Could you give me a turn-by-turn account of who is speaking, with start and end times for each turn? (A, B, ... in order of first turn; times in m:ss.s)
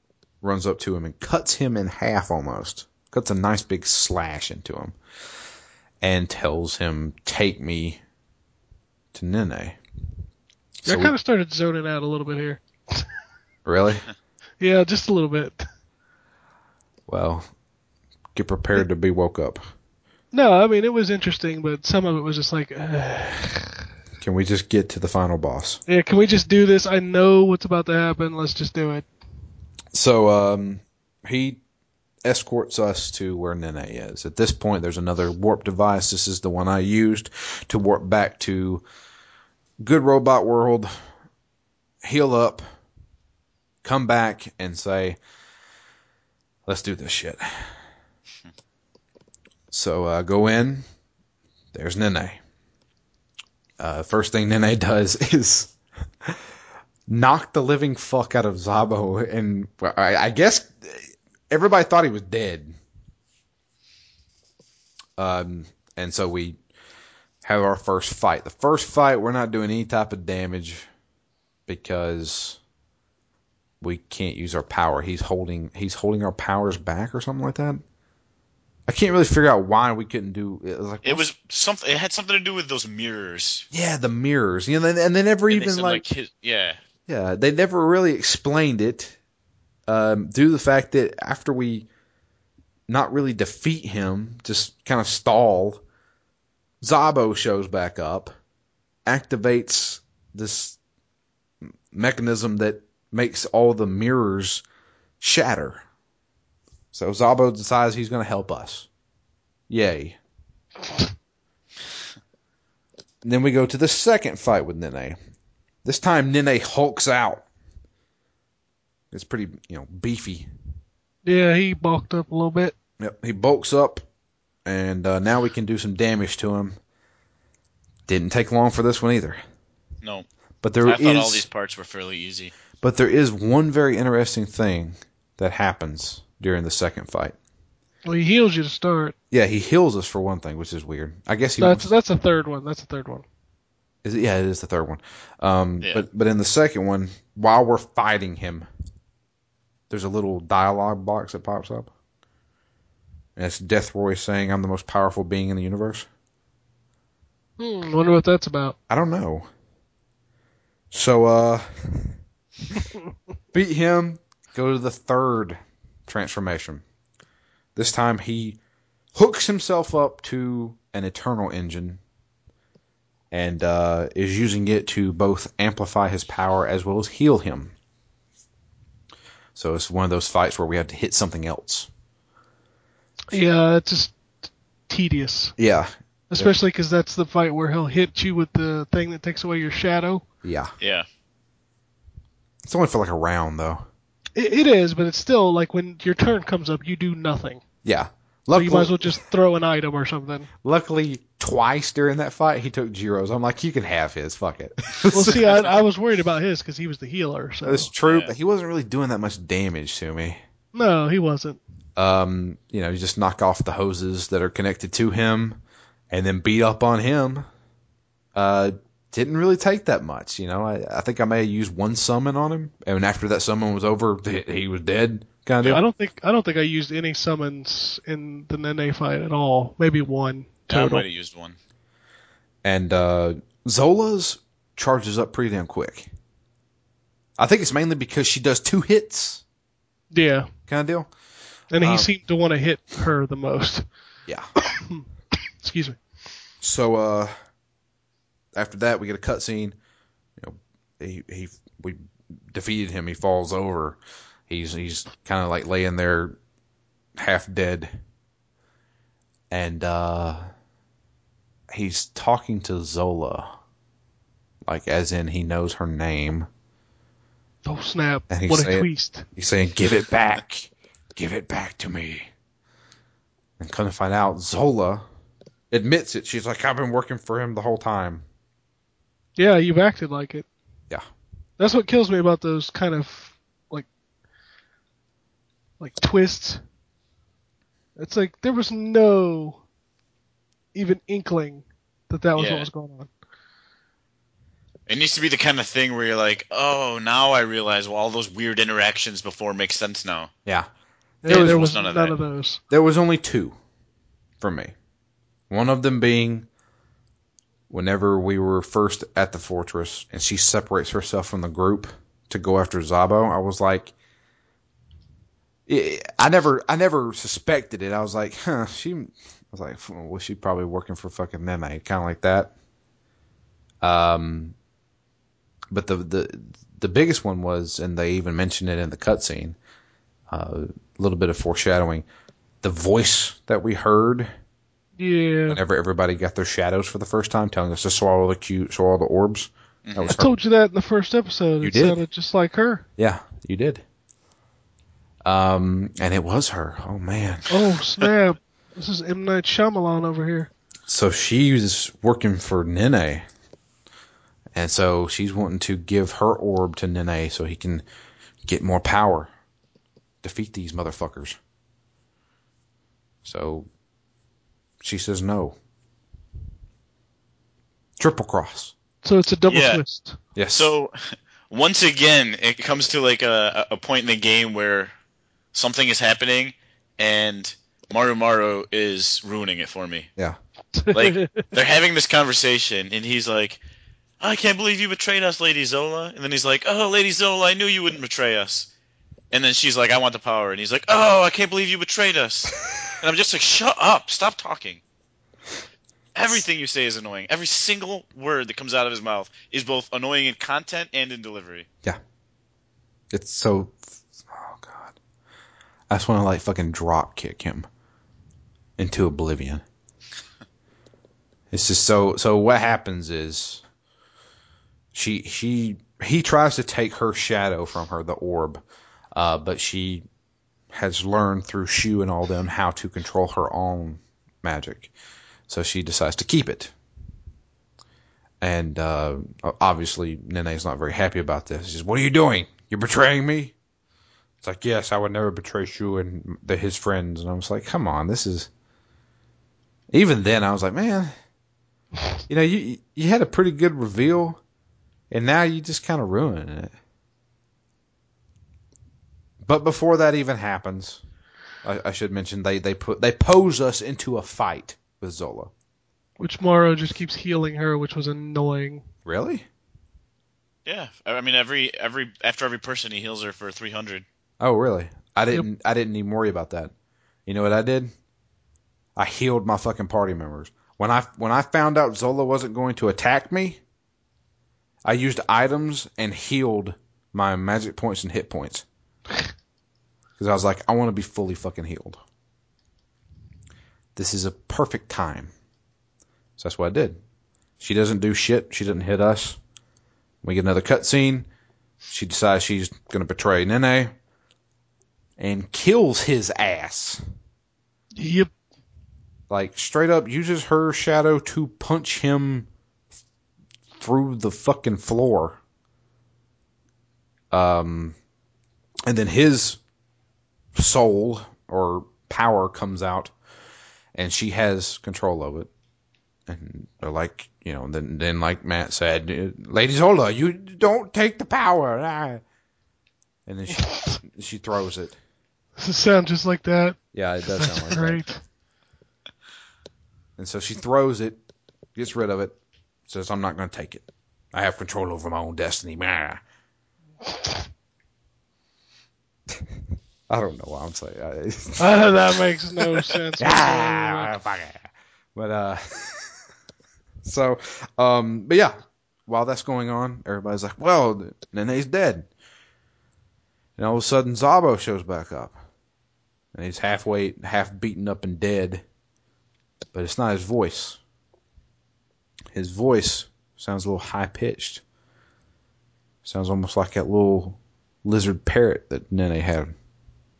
0:00.4-0:05.0 A
0:06.0-0:08.0 A
0:09.1-0:09.8 A
0:10.8-0:11.1 A
0:10.8-0:13.0 B
0:13.6-0:14.0 A
0:14.6-0:15.6 B
0:17.1-0:17.5 A
0:18.3-0:19.6 A
0:20.3-0:23.8 B
0:24.2-0:25.8 A
0:25.9-0:29.1 B
0:29.9-0:31.6 A
0:32.2-0:38.8 A
0:39.8-0:40.9 A
0:42.0-0:42.6 A
0:43.8-0:45.2 A
0:46.6-0:47.4 A
0:49.7-0:50.8 A
0:51.7-0:52.4 A
0:53.8-0:56.4 A
0:57.1-1:02.7 A
1:05.2-1:06.6 A
1:07.4-1:10.9 A
1:11.7-1:12.6 A
1:13.8-1:17.8 A
1:18.9-1:21.2 A
1:21.0-1:23.7 C
1:23.7-1:26.0 A
1:25.5-1:26.8 C
1:27.1-1:29.2 A
1:29.9-1:31.9 A
1:32.9-1:35.8 A
1:36.8-1:38.3 A
1:39.0-1:40.8 A
1:41.9-1:44.6 A
1:45.2-1:45.8 A
1:46.9-1:48.9 A
1:49.7-1:50.2 A
1:53.2-1:55.2 A
1:55.8-1:57.4 A
1:59.1-2:00.5 A
2:01.2-2:02.7 B
2:03.0-2:04.0 A
2:04.6-2:06.8 A
2:08.1-2:09.4 A
2:10.6-2:11.5 A
2:10.8-2:12.5 C
2:12.8-2:17.4 A
2:18.0-2:19.1 B
2:19.3-2:21.9 A
2:21.6-2:23.2 B
2:24.0-2:28.7 A
2:29.9-2:31.9 A
2:33.4-2:36.0 A
2:37.6-2:38.8 B
2:38.9-2:39.4 A
2:40.9-2:42.2 A
2:43.5-2:46.8 A
2:47.8-2:48.6 A
2:49.1-2:52.0 A
2:53.3-2:57.7 A
2:59.5-3:01.9 A
3:03.3-3:04.1 B
3:04.9-3:05.5 B
3:05.6-3:06.5 A
3:06.3-3:10.2 B
3:10.4-3:10.7 A
3:10.8-3:11.0 C
3:12.6-3:13.8 A
3:14.4-3:17.6 B
3:17.8-3:19.2 A
3:18.5-3:20.5 B
3:20.6-3:25.6 A
3:25.1-3:27.9 B
3:25.3-3:25.5 C
3:27.6-3:30.4 A
3:28.0-3:28.3 C
3:30.7-3:31.6 B
3:32.0-3:35.6 A
3:36.1-3:37.4 A
3:38.3-3:45.8 A
3:45.6-3:51.0 B
3:50.7-3:51.6 C
3:52.6-3:56.1 A
3:57.4-3:59.4 A
4:00.1-4:00.5 B
4:00.7-4:01.1 A
4:01.7-4:03.8 B
4:01.8-4:02.1 A
4:04.6-4:05.0 B
4:05.6-4:06.0 B
4:06.6-4:07.3 A
4:08.6-4:09.8 A
4:10.4-4:12.0 A
4:12.5-4:14.0 A
4:14.5-4:16.4 A
4:17.2-4:17.9 A
4:19.5-4:20.4 A
4:21.7-4:23.6 A
4:24.6-4:26.5 A
4:27.6-4:29.3 B
4:28.3-4:32.3 A
4:33.6-4:35.0 A
4:35.7-4:38.2 A
4:39.4-4:40.4 B
4:41.6-4:43.9 B
4:45.8-4:46.6 B
4:48.0-4:49.6 B
4:50.7-4:53.1 B
4:52.4-4:52.7 C
4:54.9-5:00.3 C
5:01.2-5:02.6 B
5:01.2-5:01.6 A
5:01.3-5:02.2 C
5:02.7-5:03.6 A
5:04.4-5:04.7 A
5:05.5-5:06.5 A
5:07.7-5:13.9 A
5:15.7-5:22.5 A
5:23.8-5:24.5 A
5:25.7-5:29.6 A
5:30.3-5:32.0 A
5:32.6-5:34.3 A
5:35.0-5:35.6 B
5:35.5-5:40.3 A
5:39.8-5:40.2 C
5:40.1-5:42.8 B
5:41.6-5:42.0 A
5:43.0-5:43.8 A
5:45.2-5:47.4 A
5:47.5-5:50.5 B
5:50.9-5:53.2 A
5:54.5-5:57.8 A
5:58.4-5:59.3 A
6:00.2-6:01.4 A
6:03.2-6:03.7 A
6:04.8-6:05.6 A
6:08.0-6:08.7 A
6:09.0-6:10.2 B
6:09.5-6:09.8 C
6:10.4-6:10.7 A
6:10.5-6:14.9 C
6:15.5-6:20.1 C
6:20.7-6:21.5 B
6:20.9-6:23.6 C
6:24.2-6:28.7 C
6:29.3-6:34.8 C
6:36.1-6:41.6 C
6:43.1-6:44.9 A
6:45.9-6:47.7 A
6:48.8-6:49.6 A
6:51.5-6:53.6 A
6:54.9-6:58.6 A
6:59.1-7:00.0 A
7:00.7-7:04.9 A
7:05.5-7:06.7 A
7:08.4-7:13.5 A
7:14.4-7:18.5 A
7:19.9-7:21.1 A
7:22.3-7:24.4 A
7:25.1-7:26.7 A
7:29.4-7:31.0 A
7:31.6-7:35.5 A
7:36.2-7:38.8 B
7:39.0-7:39.4 A
7:40.6-7:44.0 C
7:44.4-7:46.7 A
7:47.2-7:47.9 A
7:49.0-7:53.6 A
7:54.8-7:58.6 A
8:00.2-8:02.0 A
8:04.0-8:05.3 A
8:06.4-8:07.0 A
8:07.6-8:09.4 A
8:10.2-8:11.3 A
8:11.9-8:13.9 A
8:15.2-8:17.0 A
8:18.0-8:18.3 B
8:19.3-8:22.5 A
8:23.8-8:25.4 A
8:27.3-8:28.0 A
8:28.9-8:29.6 A
8:30.5-8:33.1 A
8:33.9-8:35.5 A
8:36.3-8:42.2 A
8:43.3-8:45.0 A
8:43.6-8:44.0 B
8:45.6-8:48.2 B
8:46.9-8:48.0 A
8:50.2-8:51.2 A
8:51.8-8:52.4 A
8:52.9-8:56.2 A
8:57.0-8:57.4 B
9:00.1-9:01.8 A
9:01.6-9:04.1 B
9:03.2-9:06.2 A
9:07.0-9:08.5 A
9:09.0-9:12.1 A
9:13.6-9:15.4 A
9:16.3-9:18.6 A
9:19.7-9:20.8 A
9:22.3-9:24.6 A
9:26.0-9:29.5 A